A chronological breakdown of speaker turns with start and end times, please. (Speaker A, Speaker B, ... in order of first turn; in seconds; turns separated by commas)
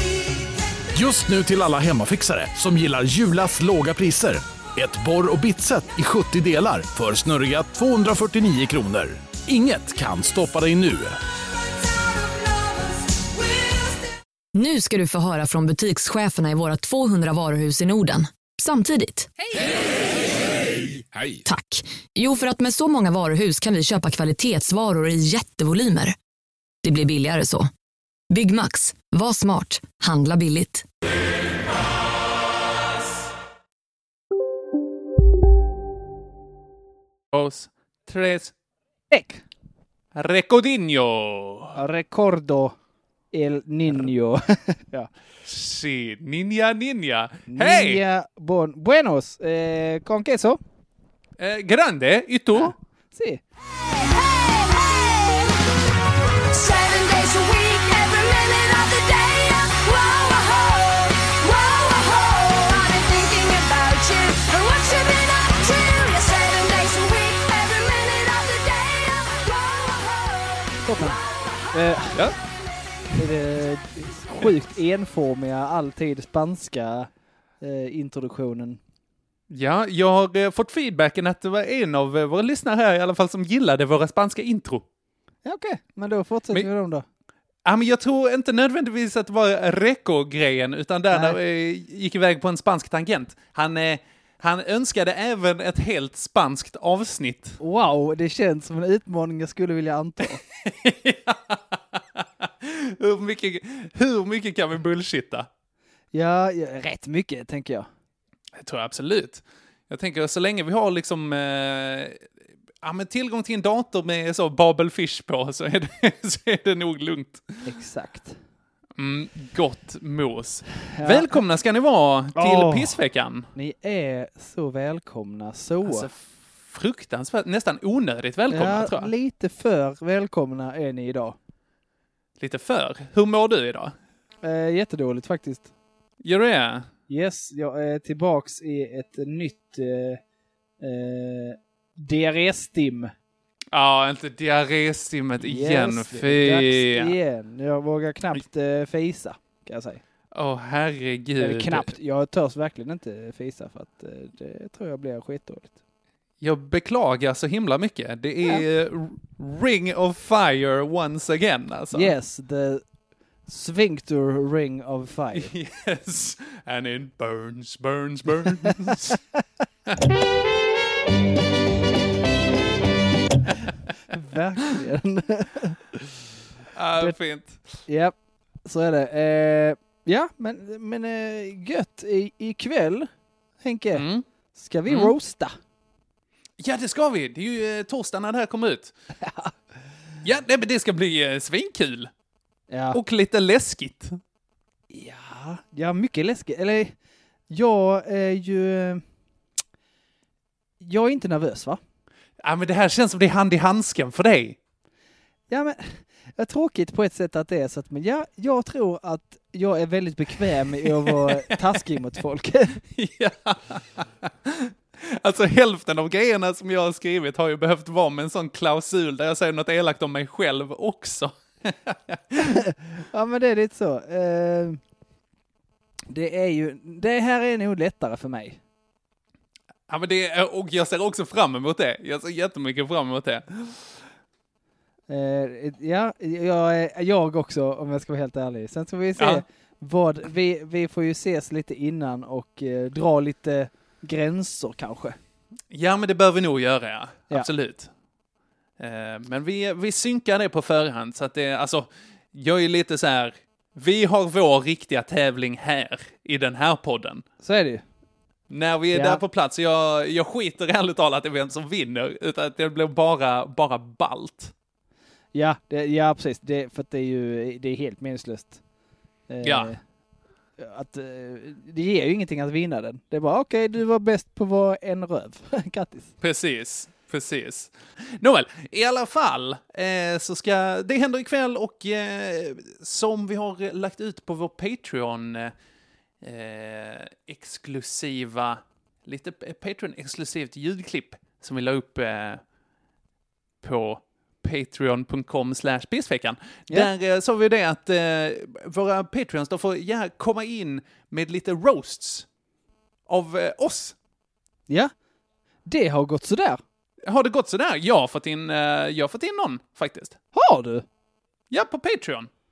Speaker A: 0.9-11.2, Speaker B: 14.6-19.3, Speaker B: 21.4-26.1, Speaker B: 26.8-27.7, Speaker B: 28.3-30.9, Speaker C: 37.3-38.5, Speaker D: 39.1-39.4, Speaker C: 40.1-41.8, Speaker D: 41.8-42.8, Speaker D: 43.3-45.1, Speaker C: 45.5-48.0, Speaker D: 47.5-50.6, Speaker C: 51.4-52.8, Speaker D: 53.1-53.4, Speaker E: 53.8-55.6, Speaker E: 56.5-70.7, Speaker D: 70.8-72.2, Speaker D: 73.2-77.1, Speaker D: 77.6-78.8, Speaker C: 79.5-84.8, Speaker D: 85.5-87.0, Speaker C: 87.7-97.6, Speaker D: 91.1-91.4, Speaker D: 97.6-100.4, Speaker C: 100.6-105.5, Speaker D: 106.1-107.9, Speaker C: 108.5-112.2, Speaker C: 112.8-117.4, Speaker D: 117.7-118.4, Speaker C: 119.0-123.5, Speaker D: 121.0-121.4, Speaker D: 122.3-123.0, Speaker D: 123.5-126.1, Speaker C: 125.8-129.1, Speaker D: 128.5-131.4, Speaker C: 132.4-134.0, Speaker D: 134.4-135.7, Speaker C: 136.2-136.9, Speaker D: 137.1-140.2, Speaker D: 140.8-143.1, Speaker C: 143.7-147.1, Speaker D: 145.4-150.0, Speaker C: 150.3-151.9, Speaker D: 151.4-155.7, Speaker C: 156.4-162.1, Speaker D: 161.9-162.8, Speaker D: 163.5-165.5, Speaker C: 165.3-169.2, Speaker D: 174.1-176.1, Speaker C: 176.8-177.6, Speaker D: 177.9-178.1, Speaker D: 178.7-183.1, Speaker D: 183.6-184.0, Speaker C: 183.9-184.3, Speaker D: 184.6-185.5, Speaker C: 184.9-185.1, Speaker C: 186.6-188.9, Speaker D: 189.2-189.5, Speaker C: 190.2-192.1, Speaker D: 192.7-193.0, Speaker C: 192.9-194.2, Speaker D: 194.9-196.9, Speaker D: 197.5-199.0, Speaker D: 200.8-201.8, Speaker C: 202.4-204.6, Speaker D: 205.5-212.8, Speaker C: 210.8-211.8, Speaker C: 212.8-222.6, Speaker D: 222.4-224.8, Speaker D: 226.1-228.6, Speaker C: 229.9-233.8, Speaker D: 235.1-245.2, Speaker C: 239.2-239.4, Speaker C: 245.7-247.9, Speaker C: 248.8-257.2, Speaker D: 257.4-257.8, Speaker C: 258.5-264.5, Speaker D: 258.9-259.2, Speaker D: 265.3-268.6, Speaker D: 269.3-269.8, Speaker C: 269.4-269.8, Speaker D: 270.6-276.1, Speaker C: 276.2-285.5, Speaker C: 286.2-292.4, Speaker C: 293.6-302.3, Speaker C: 303.1-304.0, Speaker D: 305.7-306.6, Speaker C: 307.0-310.2, Speaker D: 310.3-310.9, Speaker C: 311.5-312.3